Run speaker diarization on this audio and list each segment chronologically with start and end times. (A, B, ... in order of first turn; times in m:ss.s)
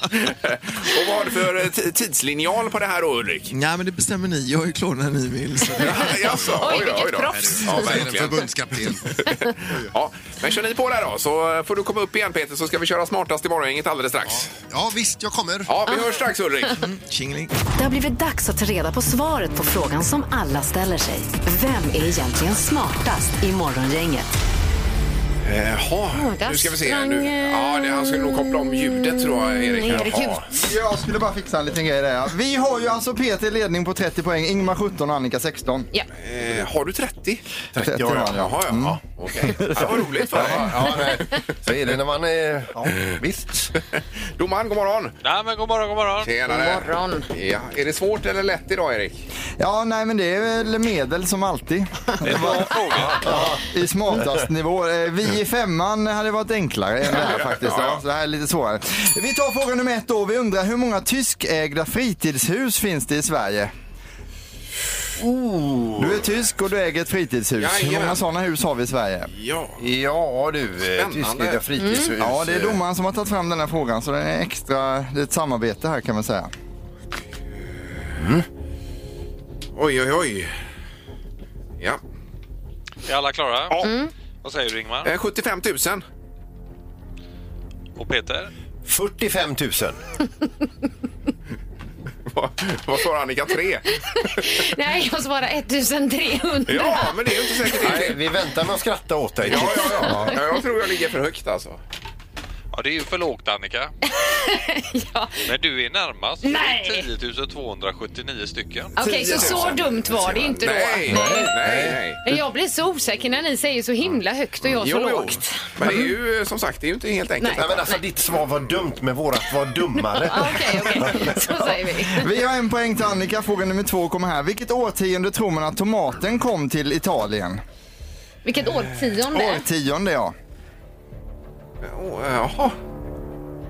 0:00.3-0:03.5 A
0:03.5-0:06.2 B
0:05.8-0:08.5 A
0:06.4-0:08.0 C
0:07.4-0:09.1 D
0:09.2-0:14.5 A
0:14.3-0:15.7 D
0:15.7-0:16.8 A
0:16.8-0:17.5 B
0:17.8-0:24.3 E
0:25.4-0:30.4 A
0:26.1-0:30.4 C
0:30.5-0:35.9 F
0:36.2-0:37.4 A
0:37.7-0:38.9 D
0:37.8-0:40.6 F
0:38.2-0:41.3 A
0:39.7-0:43.7 D
0:44.4-0:45.2 A
0:45.2-0:46.3 G
0:46.2-0:49.3 A
0:46.5-0:47.3 C
0:49.6-1:03.7 F
0:52.2-0:53.3 G
0:53.1-0:53.6 D
0:57.1-0:58.0 A
1:05.2-1:06.3 D
1:06.0-1:09.3 F
1:07.6-1:08.2 A
1:09.3-1:09.8 A
1:09.8-1:12.8 D
1:10.9-1:11.6 A
1:11.8-1:12.1 C
1:12.2-1:16.5 F
1:18.2-1:18.4 D
1:19.7-1:20.5 A
1:23.0-1:25.1 G
1:23.8-1:24.1 C
1:25.0-1:26.0 A
1:28.0-1:28.5 G
1:28.8-1:30.0 D
1:32.3-1:33.9 A
1:34.1-1:37.1 C
1:36.7-1:38.2 A
1:37.8-1:40.3 D
1:39.4-1:41.8 A
1:39.9-1:40.4 C
1:42.7-1:43.9 G
1:44.1-1:45.4 C
1:45.4-1:48.9 G
1:46.4-1:47.0 C
1:49.0-1:51.5 C
1:49.0-1:50.5 D
1:49.3-1:49.8 A
1:50.6-1:52.2 A
1:51.1-1:52.0 D
1:52.2-1:56.1 C
1:54.7-1:57.8 A
1:57.4-1:58.0 C
1:57.5-2:01.5 D
2:00.1-2:02.3 C
2:01.7-2:07.6 F
2:08.4-2:09.6 C
2:09.3-2:10.3 F
2:11.8-2:12.8 A